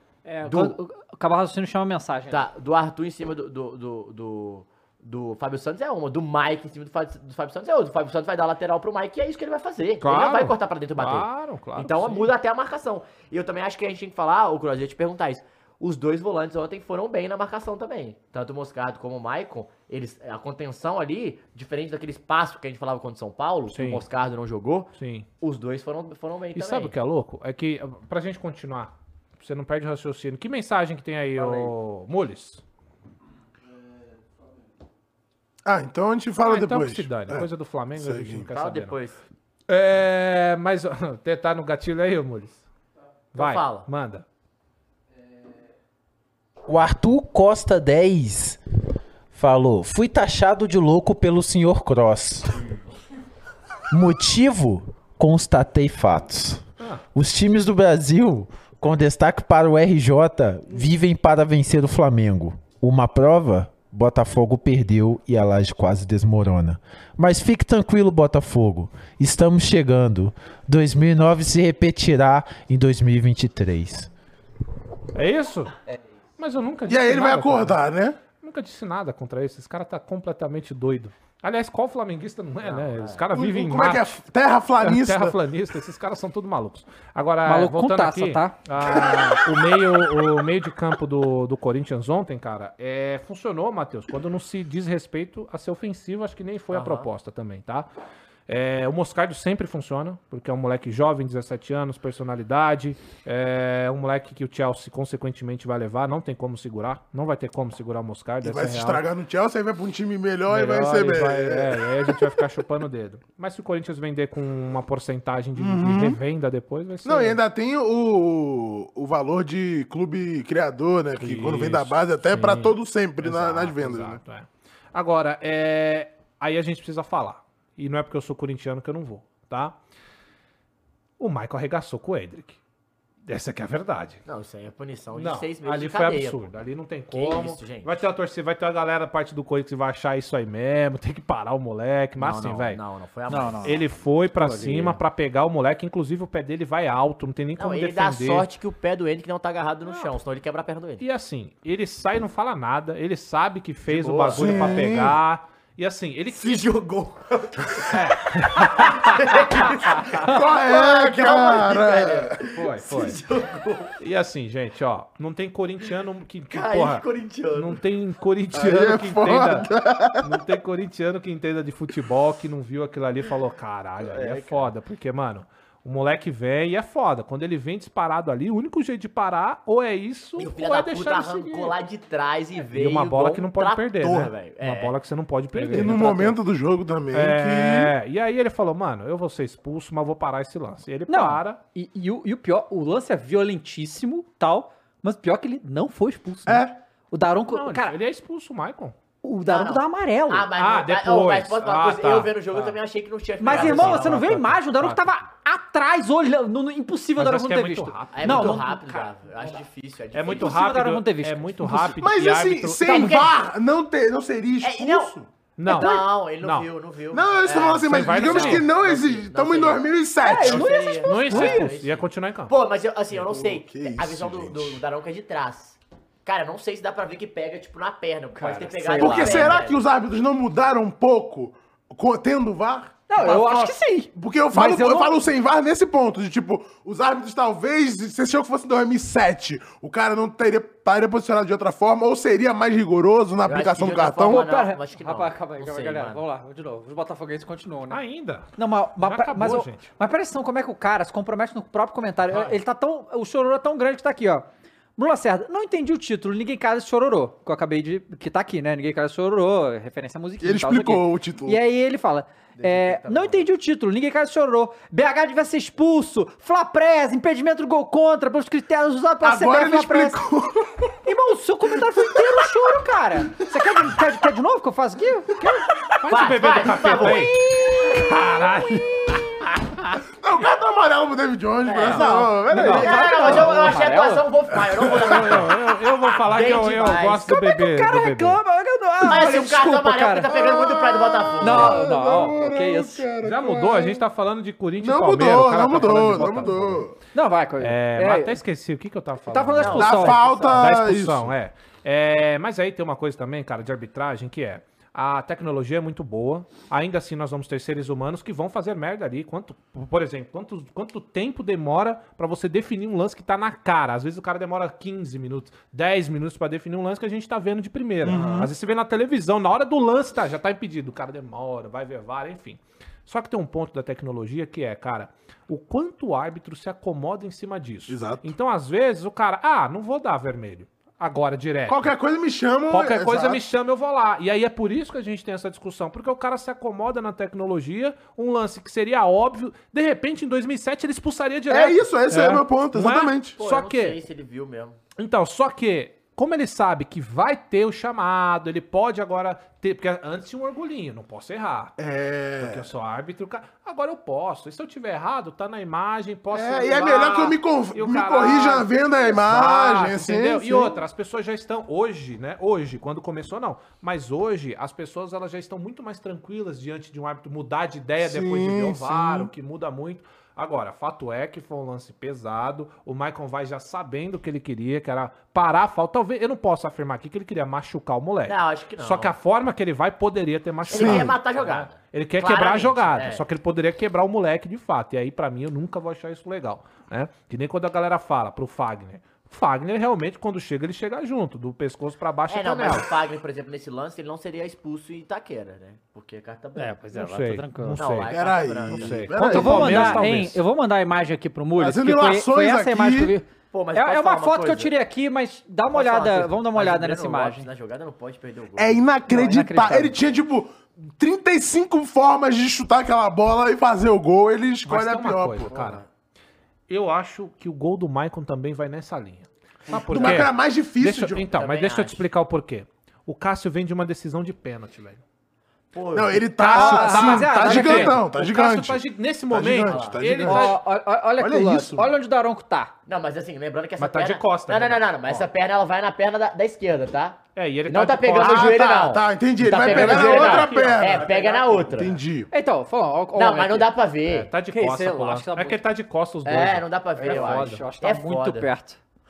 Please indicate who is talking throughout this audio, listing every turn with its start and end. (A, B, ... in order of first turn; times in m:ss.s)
0:00.2-0:02.5 A
0:00.5-0:00.8 B
0:02.3-0:24.9 B
0:10.0-0:12.2 C
0:11.9-0:12.1 A
0:23.7-0:24.0 C
0:25.0-0:25.3 C
0:25.4-0:26.9 B
0:26.6-0:32.6 C
0:31.4-0:31.7 B
0:35.6-0:38.5 D
0:36.4-0:39.0 C
0:38.5-0:39.2 B
0:39.7-0:42.6 C
0:43.3-0:44.2 C
0:43.4-0:43.9 B
0:46.7-0:48.6 E
0:49.3-0:52.6 E
0:53.9-1:14.1 E
1:15.2-1:15.8 C
1:16.4-1:17.8 C
1:16.9-1:18.2 D
1:18.4-1:24.2 C
1:22.6-1:23.2 B
1:23.3-1:25.4 D
1:24.8-1:37.9 C
1:27.4-1:28.6 A
1:28.8-1:29.4 D
1:36.7-1:37.1 B
1:38.5-1:49.0 C
1:48.4-1:52.4 D
1:50.5-1:57.4 C
1:55.6-1:56.2 D
1:57.0-2:04.2 D
2:01.2-2:09.8 C
2:11.2-2:12.6 C
2:13.3-2:14.2 C
2:14.3-2:16.5 B
2:15.1-2:22.8 C
2:17.1-2:18.0 B
2:22.2-2:25.0 B
2:23.3-2:23.8 A
2:23.3-2:28.5 C
2:27.6-2:31.0 B
2:31.0-2:36.7 C
2:33.9-2:34.9 B
2:34.3-2:35.2 D
2:36.3-2:38.0 B
2:37.9-2:39.4 C
2:38.5-2:44.0 B
2:40.2-2:42.4 D
2:42.5-2:43.2 C
2:44.0-3:01.8 C
2:46.5-2:47.8 B
2:48.5-2:50.2 D
2:54.0-2:54.7 B
3:00.4-3:04.9 B
3:02.7-3:06.4 C
3:05.5-3:06.0 A
3:05.7-3:07.9 D
3:07.1-3:11.6 C
3:11.1-3:18.0 A
3:16.5-3:16.8 D
3:17.5-3:19.0 C
3:19.2-3:20.5 A
3:19.5-3:24.3 B
3:20.6-3:22.8 C
3:23.4-3:28.8 A
3:23.4-3:25.0 C
3:27.2-3:29.6 C
3:28.2-3:30.5 B
3:30.1-3:33.2 C
3:30.3-3:31.6 A
3:32.0-3:35.3 D
3:32.8-3:33.3 B
3:34.6-3:35.1 B
3:35.6-3:36.7 C
3:35.7-3:49.8 B
3:37.1-3:40.9 D
3:37.9-3:38.7 C
3:40.2-3:41.7 A
3:41.0-3:42.5 C
3:43.1-3:44.8 D
3:48.4-3:49.5 A
3:49.0-4:04.5 D
3:53.1-3:55.2 A
4:03.4-4:06.2 B
4:04.2-4:08.0 A
4:07.9-4:09.9 C
4:08.6-4:14.5 A
4:12.3-4:12.6 B
4:15.0-4:30.2 A
4:20.4-4:21.6 D
4:22.6-4:23.5 B
4:29.2-4:30.9 D
4:31.0-4:35.3 A
4:35.4-4:39.5 C
4:36.1-4:37.9 B
4:40.2-4:43.6 D
4:41.6-4:42.1 B
4:42.0-4:44.2 A
4:42.6-4:43.5 C
4:42.6-4:47.2 B
4:44.7-4:45.4 D
4:44.8-4:48.4 C
4:47.2-4:50.3 A
4:49.0-4:51.8 B
4:50.3-4:54.0 D
4:51.4-4:53.1 A
4:53.2-4:56.8 C
4:54.8-4:57.0 D
4:57.1-4:58.4 A
4:57.6-5:31.9 C
4:59.3-5:00.2 A
4:59.6-5:00.6 B
4:59.8-5:01.3 D
5:18.0-5:18.5 D
5:27.9-5:28.2 D
5:31.7-5:33.4 D
5:32.7-5:44.0 C
5:41.5-5:43.4 D
5:43.4-5:44.8 B
5:45.0-5:51.7 C
5:51.8-5:52.6 D
5:52.4-6:32.9 C
5:56.3-6:00.8 D
6:08.0-6:09.3 D
6:18.3-6:19.1 B
6:20.7-6:21.1 D
6:20.7-6:23.2 B
6:32.3-6:36.8 B
6:36.6-6:37.8 A
6:36.9-6:38.1 C
6:37.8-6:39.8 B
6:38.1-6:40.0 D
6:38.7-6:40.4 C
6:39.2-6:47.5 A
6:41.6-6:43.1 D
6:43.5-6:44.7 B
6:45.7-6:48.8 B
6:48.6-6:55.5 D
6:49.1-6:49.9 A
6:54.6-6:55.8 C
6:55.4-6:55.8 B
6:56.7-7:05.0 C
6:59.8-7:00.2 B
6:59.9-7:01.3 D
7:01.3-7:02.0 B
7:05.7-7:06.3 B
7:05.9-7:10.6 D
7:06.4-7:08.0 A
7:06.5-7:10.6 C
7:09.6-7:10.2 B
7:10.2-7:12.7 A
7:11.2-7:11.9 D
7:12.9-7:22.0 B
7:13.8-7:15.2 C
7:17.4-7:18.7 C
7:18.2-7:22.3 D
7:19.6-7:21.4 A
7:19.7-7:20.1 C
7:22.3-7:23.7 A
7:23.1-7:24.3 B
7:24.2-7:27.6 C
7:24.5-7:25.6 A
7:26.2-7:28.5 B
7:27.0-7:28.8 A